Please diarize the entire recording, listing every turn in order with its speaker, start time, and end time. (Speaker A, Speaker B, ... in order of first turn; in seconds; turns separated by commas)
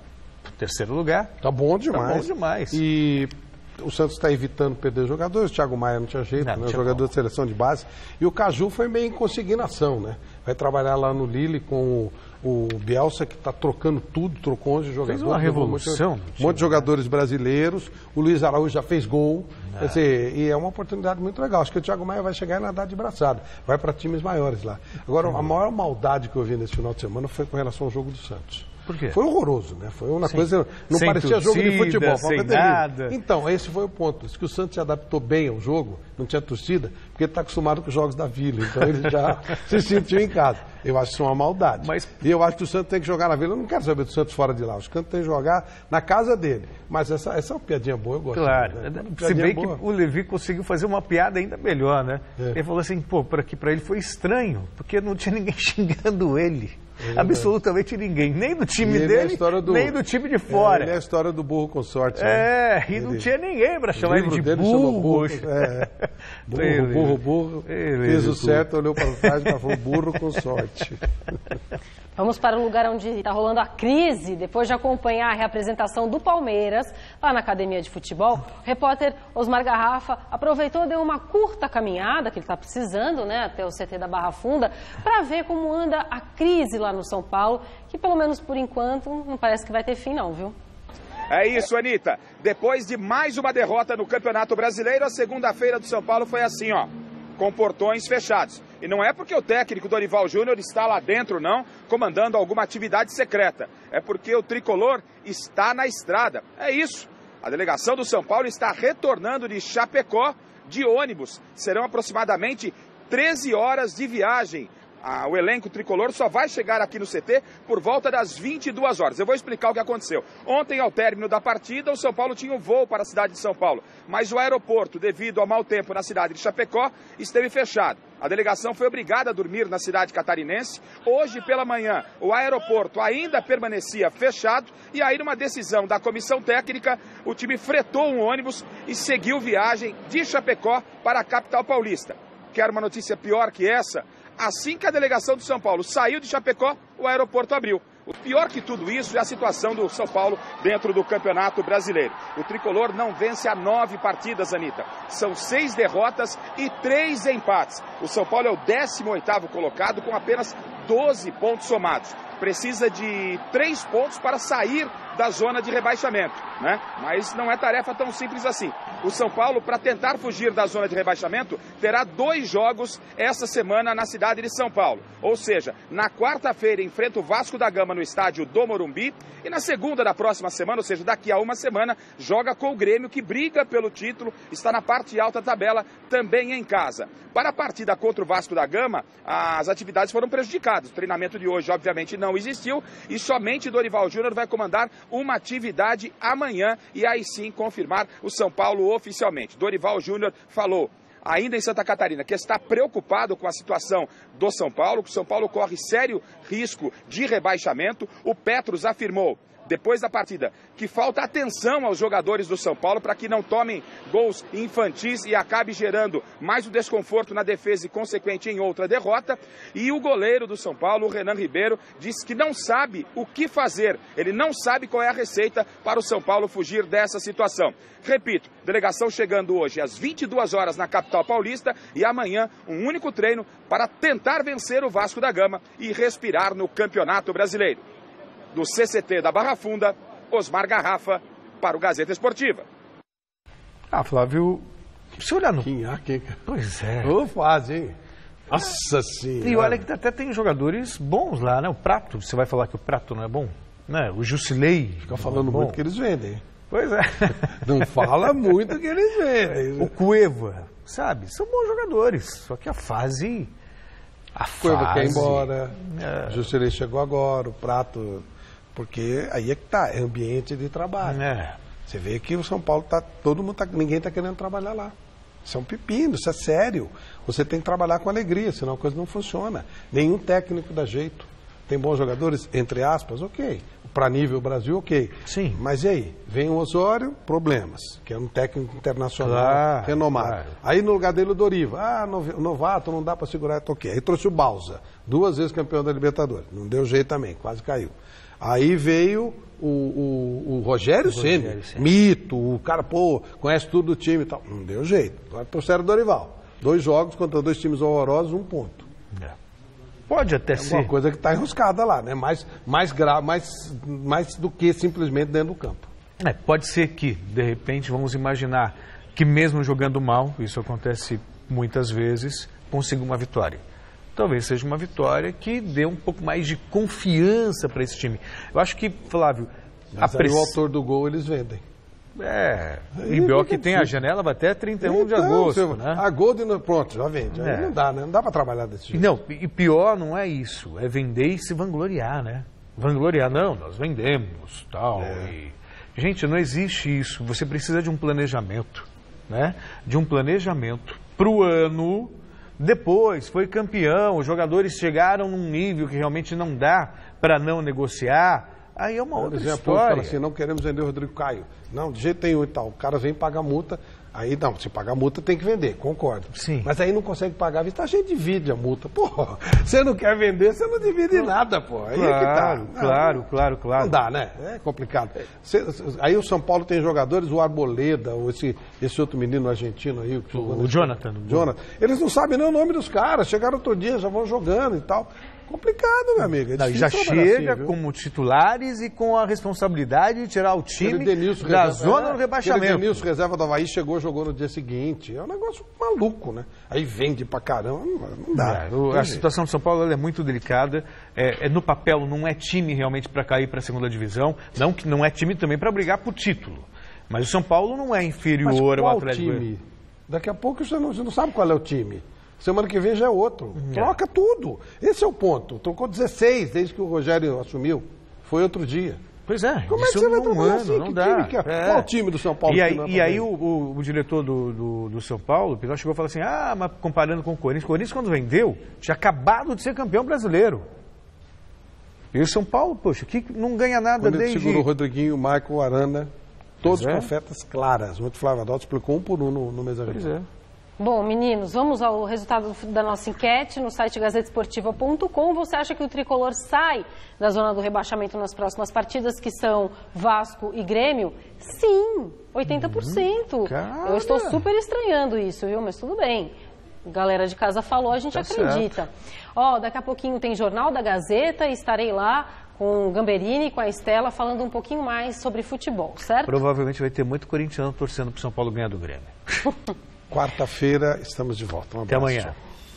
Speaker A: 0.5-1.3, Speaker B: 1.4-49.8, Speaker A: 1.9-2.8, Speaker A: 6.4-7.0, Speaker A: 15.1-16.9, Speaker A: 19.7-20.0, Speaker A: 28.9-29.2, Speaker A: 30.2-33.2, Speaker A: 41.8-42.1, Speaker A: 48.3-60.9, Speaker B: 57.0-57.5, Speaker B: 58.8-63.3, Speaker A: 62.2-65.9, Speaker B: 63.9-65.9, Speaker B: 66.5-71.0, Speaker A: 66.5-69.3, Speaker C: 72.2-90.5, Speaker D: 91.3-237.8, Speaker D: 238.5-242.6, Speaker A: 243.9-245.7, Speaker B: 245.6-246.4, Speaker A: 246.4-247.1, Speaker B: 247.0-247.9, Speaker B: 248.5-249.8, Speaker A: 249.4-255.8, Speaker B: 255.1-256.4, Speaker A: 256.7-258.1, Speaker B: 257.5-259.9, Speaker A: 259.5-263.5, Speaker A: 264.4-266.4, Speaker B: 264.6-271.2, Speaker A: 271.0-271.6, Speaker B: 271.9-274.9, Speaker B: 275.4-308.9, Speaker A: 285.3-285.6, Speaker A: 289.2-290.5, Speaker A: 301.1-301.9, Speaker A: 310.1-310.9, Speaker B: 310.5-315.9, Speaker A: 316.2-323.6, Speaker A: 324.1-330.5, Speaker B: 329.9-331.6, Speaker A: 332.1-336.0, Speaker B: 333.0-334.0, Speaker B: 334.8-339.1, Speaker A: 337.4-337.7, Speaker A: 338.9-360.1, Speaker B: 345.0-345.3, Speaker B: 359.1-387.8, Speaker A: 366.3-366.7, Speaker A: 371.9-374.0, Speaker A: 380.3-381.5, Speaker A: 386.5-393.0, Speaker B: 390.8-399.2, Speaker A: 398.3-409.4, Speaker B: 408.4-419.0, Speaker A: 413.6-413.9, Speaker A: 419.3-421.9, Speaker B: 419.7-423.3, Speaker A: 422.4-430.6, Speaker A: 432.1-434.6, Speaker B: 434.0-436.1, Speaker B: 436.6-440.1, Speaker A: 436.6-437.1, Speaker A: 439.9-440.3, Speaker C: 440.8-466.4, Speaker A: 452.5-454.4, Speaker A: 458.1-458.7, Speaker A: 466.2-469.4, Speaker B: 470.1-472.4, Speaker A: 471.9-472.3